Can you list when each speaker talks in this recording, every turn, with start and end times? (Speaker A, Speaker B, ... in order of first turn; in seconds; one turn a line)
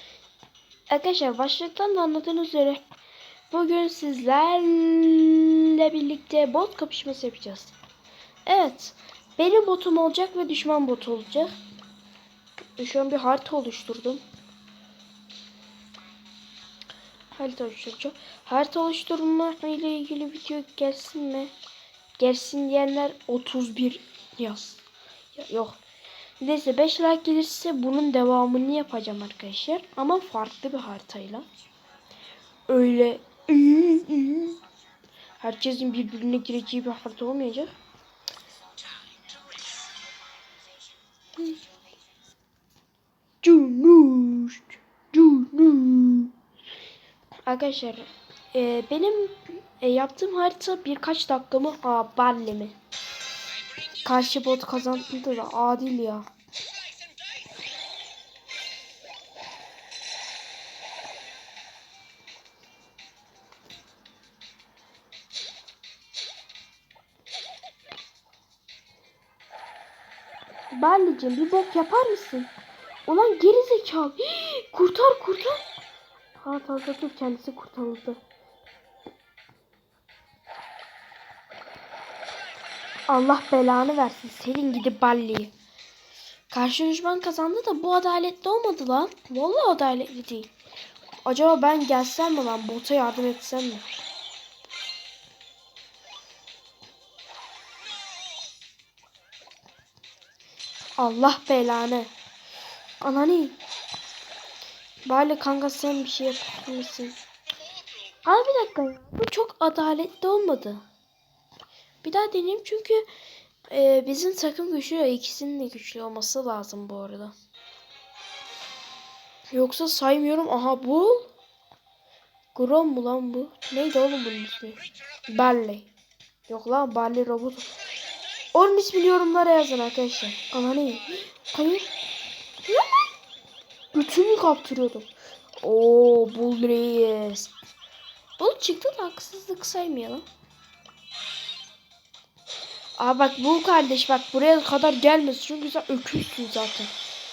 Speaker A: 0.9-2.8
Speaker A: 3.5-7.8
Speaker A: 8.5-11.6
Speaker A: 12.8-14.2
Speaker A: 17.3-21.5
Speaker A: 22.2-25.8
Speaker A: 26.4-31.4
Speaker A: 32.7-34.6
Speaker A: 35.4-37.7
Speaker A: 43.4-46.3
Speaker A: 47.5-52.8
Speaker A: 54.0-56.3
Speaker A: 70.7-72.5
Speaker A: 73.1-75.7
Speaker A: 76.4-78.2
Speaker A: 83.1-85.5
Speaker A: 86.5-90.5
Speaker A: 91.2-93.9
Speaker A: 101.0-102.1
Speaker A: 103.0-103.6
Speaker A: 105.0-107.2
Speaker A: 108.3-110.8
Speaker A: 112.0-113.1
Speaker A: 113.7-117.3
Speaker A: 119.5-121.3
Speaker A: 122.5-125.9
Speaker A: 126.5-127.7
Speaker A: 128.5-131.9
Speaker A: 132.7-133.1
Speaker A: 133.9-137.5
Speaker A: 138.4-140.2
Speaker A: 143.0-146.9